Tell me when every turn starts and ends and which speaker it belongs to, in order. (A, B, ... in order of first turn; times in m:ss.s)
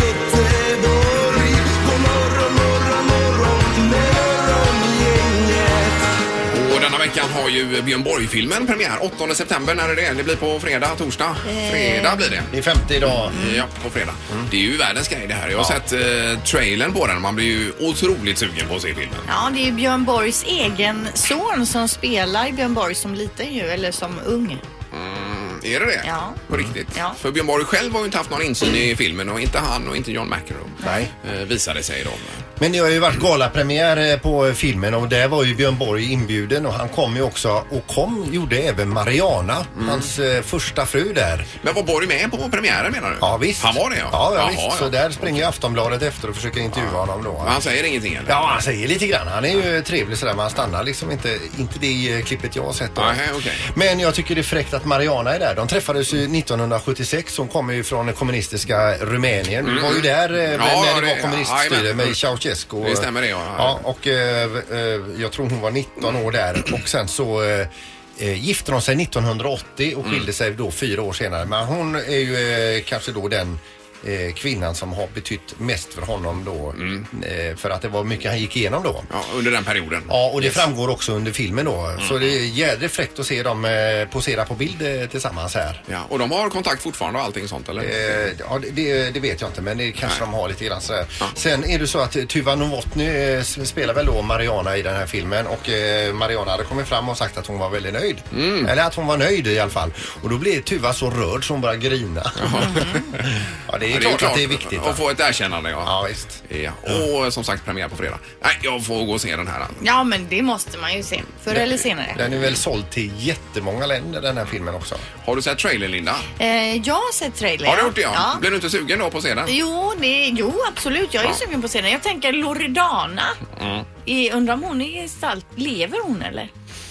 0:06.5-0:12.5 A
0:11.4-0:12.3 B
0:12.5-0:13.4 C
0:13.2-0:19.3 A
0:13.3-0:13.6 B
0:19.3-0:24.6 B
0:24.9-0:32.4 A
0:26.0-0:26.4 B
0:30.8-0:31.1 C
0:32.6-0:41.5 C
0:39.8-0:40.1 A
0:41.6-0:45.5 A
0:43.2-0:47.6 C
0:46.7-0:48.4 A
0:48.3-1:19.1 C
0:53.0-0:53.6 A
0:59.6-1:02.2 A
1:02.8-1:03.8 A
1:16.7-1:17.1 A
1:19.1-1:20.7 A
1:20.1-1:25.8 C
1:22.0-1:22.4 A
1:25.9-1:28.2 A
1:27.8-1:42.9 C
1:38.3-1:38.7 A
1:42.4-1:45.9 A
1:42.5-1:43.1 B
1:43.7-1:45.0 C
1:45.8-1:47.0 C
1:46.4-1:49.8 A
1:49.8-1:52.2 B
1:52.1-1:55.0 C
1:52.2-1:52.6 A
1:55.2-1:56.3 A
1:56.4-1:58.4 B
1:57.6-1:59.5 A
1:59.5-2:03.4 B
2:03.6-2:03.9 A
2:04.0-2:06.5 B